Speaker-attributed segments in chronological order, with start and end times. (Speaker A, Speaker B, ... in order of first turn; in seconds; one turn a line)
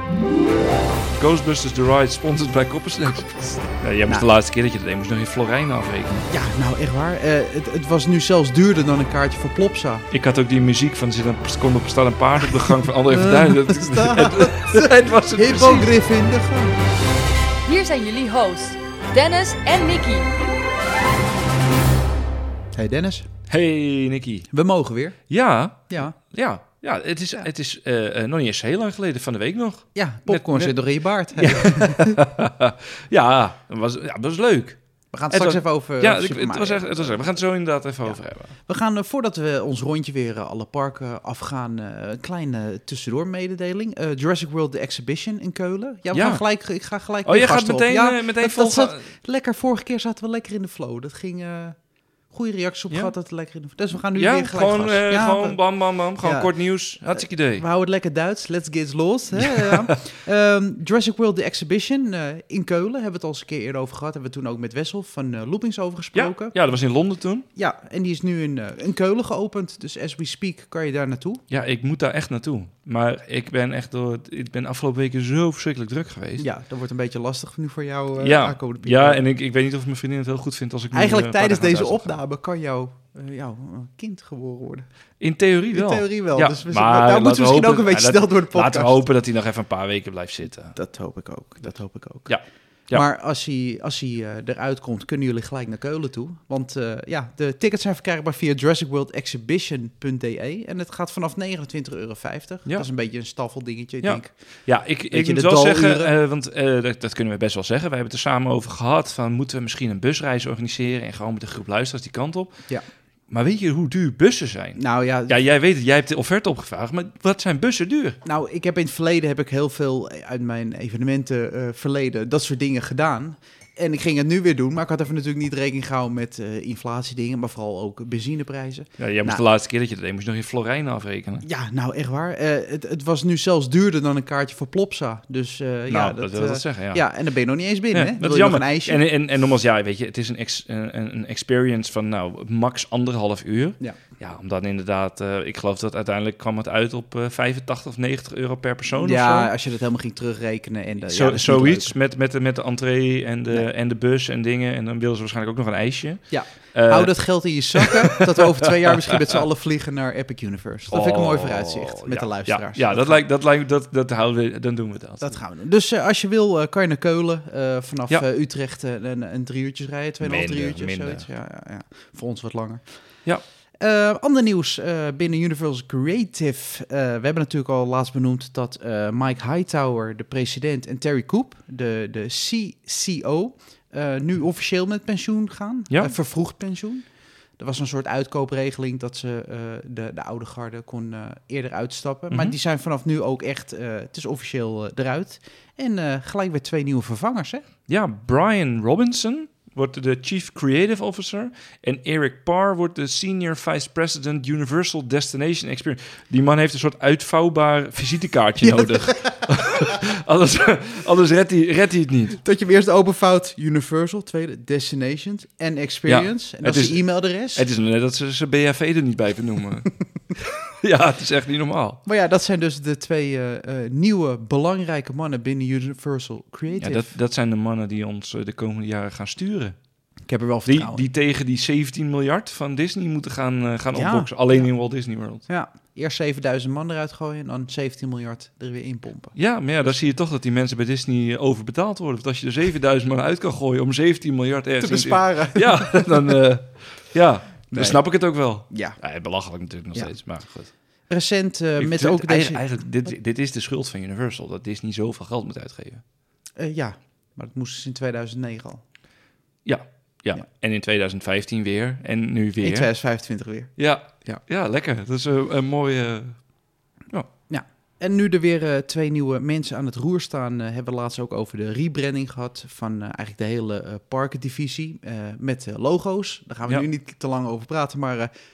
Speaker A: 1.2-6.3
Speaker B: 6.3-10.1
Speaker A: 10.1-15.9
Speaker B: 12.5-16.8
Speaker C: 17.7-20.3
Speaker B: 22.8-23.3
Speaker A: 23.5-24.5
Speaker B: 24.5-25.2
Speaker A: 25.3-30.8
Speaker B: 25.9-26.2
Speaker B: 29.9-32.2
Speaker A: 31.4-34.8
Speaker B: 35.1-37.2
Speaker A: 35.3-38.5
Speaker B: 38.7-51.8
Speaker A: 46.1-46.4
Speaker A: 47.2-49.0
Speaker B: 52.3-55.6
Speaker A: 54.1-57.6
Speaker B: 56.2-56.5
Speaker B: 57.0-66.5
Speaker A: 59.6-59.9
Speaker A: 66.1-67.5
Speaker B: 67.6-71.4
Speaker A: 71.5-76.5
Speaker B: 76.4-79.2
Speaker A: 78.2-82.2
Speaker B: 80.9-84.9
Speaker A: 85.2-90.8
Speaker B: 85.7-89.0
Speaker B: 90.7-92.3
Speaker A: 92.3-93.0
Speaker B: 92.9-104.3
Speaker A: 104.0-112.6
Speaker B: 105.1-106.1
Speaker A: 113.3-118.2
Speaker B: 114.8-115.4
Speaker B: 118.2-129.4
Speaker A: 129.0-131.4
Speaker B: 131.4-139.0
Speaker A: 135.9-137.1
Speaker A: 137.9-149.5
Speaker B: 148.9-151.9
Speaker A: 151.1-159.1
Speaker B: 156.3-163.2
Speaker A: 160.9-165.4
Speaker B: 165.2-172.8
Speaker A: 170.2-171.3
Speaker B: 173.8-187.1
Speaker B: 187.6-197.7
Speaker A: 192.3-192.6
Speaker A: 197.9-212.4
Speaker B: 208.6-209.5
Speaker B: 212.4-217.7
Speaker A: 216.1-222.0
Speaker B: 222.1-227.1
Speaker A: 226.8-229.8
Speaker B: 230.3-231.0
Speaker A: 230.7-235.4
Speaker B: 233.9-234.7
Speaker B: 235.4-239.3
Speaker A: 239.3-250.7
Speaker B: 244.8-246.4
Speaker B: 247.7-248.0
Speaker B: 248.7-249.0
Speaker B: 251.1-252.6
Speaker A: 251.8-256.0
Speaker B: 256.6-258.8
Speaker A: 259.6-262.9
Speaker B: 262.6-264.4
Speaker A: 263.8-266.4
Speaker B: 267.5-278.3